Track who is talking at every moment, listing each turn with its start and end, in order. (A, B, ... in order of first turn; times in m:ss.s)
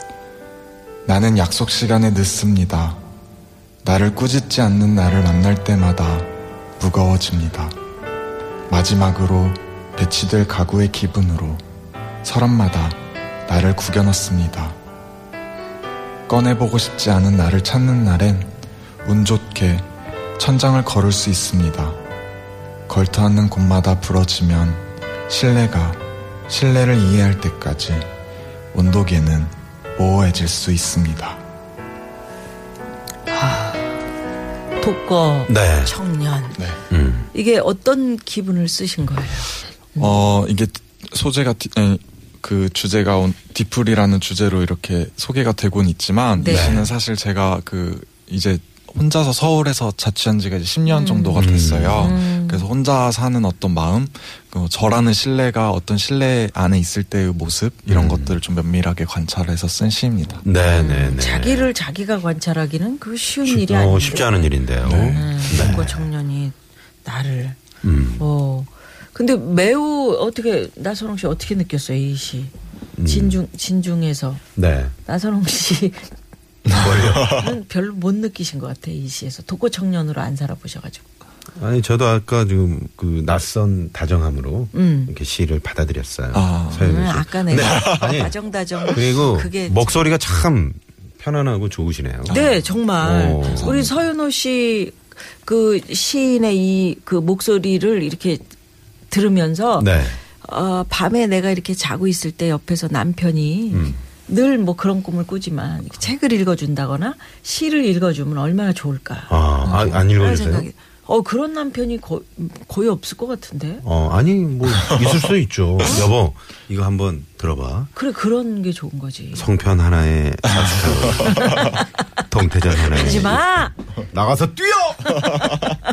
0:01.0-0:03.0 A
0:03.8-0:07.7 A
0:08.7-0:11.6 A
0:12.2-0:14.8 A
0:16.3-0:18.5 A
0:19.0-0:22.0 A
0:22.9-0:28.1 A
0:28.7-0:31.4 A
0:33.4-0:33.7 B
0:34.8-0:36.6 B
0:35.5-0:35.9 C
0:36.9-0:37.3 C
0:37.3-0:40.2 B
0:40.0-1:00.4 A
0:46.4-0:46.8 B
0:46.5-0:46.9 C
0:50.8-0:52.6 B
0:51.4-0:52.2 C
0:57.9-0:58.4 C
1:00.4-1:01.7 C
1:00.6-1:04.5 B
1:03.4-1:06.1 C
1:04.8-1:05.8 A
1:05.1-1:07.6 B
1:07.8-1:08.2 C
1:08.2-1:12.5 B
1:13.0-1:13.4 C
1:13.0-1:14.4 B
1:14.6-1:14.9 C
1:15.0-1:16.1 B
1:16.7-1:17.4 A
1:16.7-1:17.4 C
1:17.2-1:21.0 B
1:21.6-1:32.4 C
1:24.7-1:25.1 B
1:26.3-1:26.9 A
1:26.8-1:30.0 B
1:27.5-1:28.2 A
1:32.3-1:38.4 B
1:33.0-1:33.9 C
1:39.1-1:53.8 B
1:39.8-1:40.2 C
1:43.7-1:44.0 C
1:49.3-1:50.7 C
1:49.6-1:50.0 A
1:53.8-1:57.9 C
1:57.9-1:59.5 B
1:59.3-2:05.7 C
2:00.6-2:01.7 A
2:01.4-2:01.7 B
2:02.9-2:03.7 B